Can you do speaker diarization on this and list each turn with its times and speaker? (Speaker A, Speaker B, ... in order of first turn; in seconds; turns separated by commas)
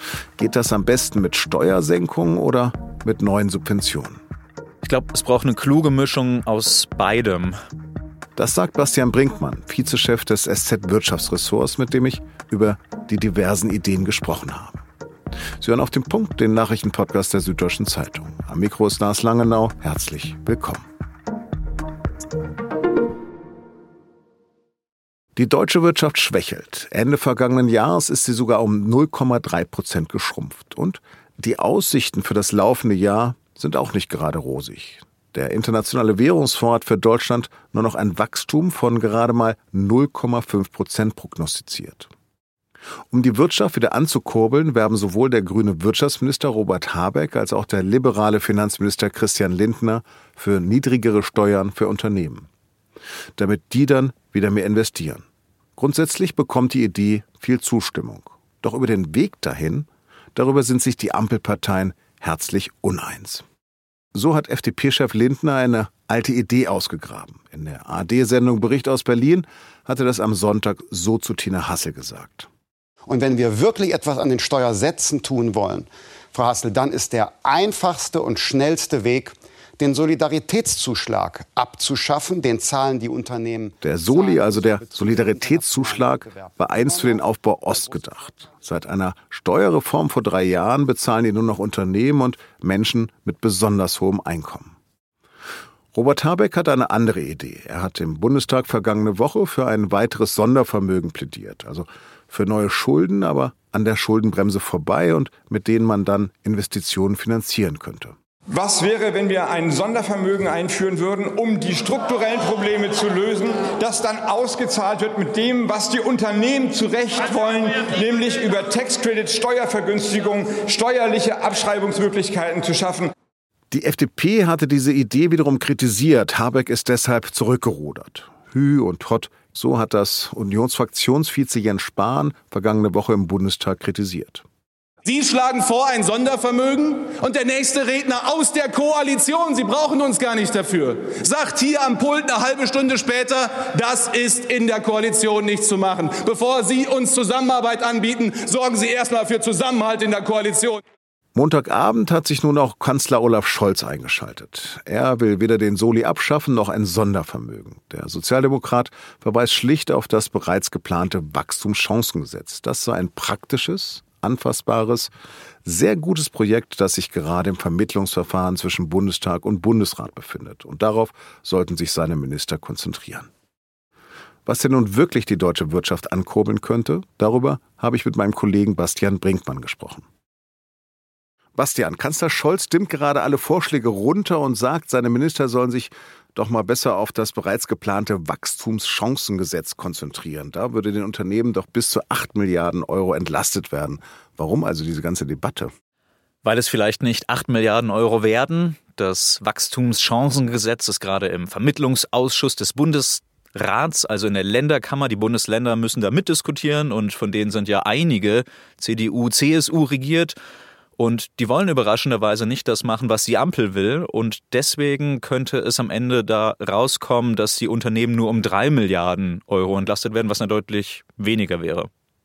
Speaker A: 0.4-4.2, Speaker B: 4.8-7.5, Speaker A: 8.3-14.8, Speaker A: 15.6-20.9, Speaker A: 25.4-42.1, Speaker A: 43.1-52.5, Speaker A: 53.4-55.2, Speaker A: 55.8-63.4, Speaker A: 64.1-72.5, Speaker C: 73.1-87.2, Speaker A: 83.8-94.8, Speaker A: 95.9-108.1, Speaker D: 108.5-123.1, Speaker A: 123.7-134.4, Speaker E: 135.0-150.8, Speaker A: 151.3-165.1, Speaker A: 165.6-173.3, Speaker A: 174.4-180.1, Speaker A: 181.6-195.7, Speaker B: 196.4-210.3, Speaker B: 211.0-221.9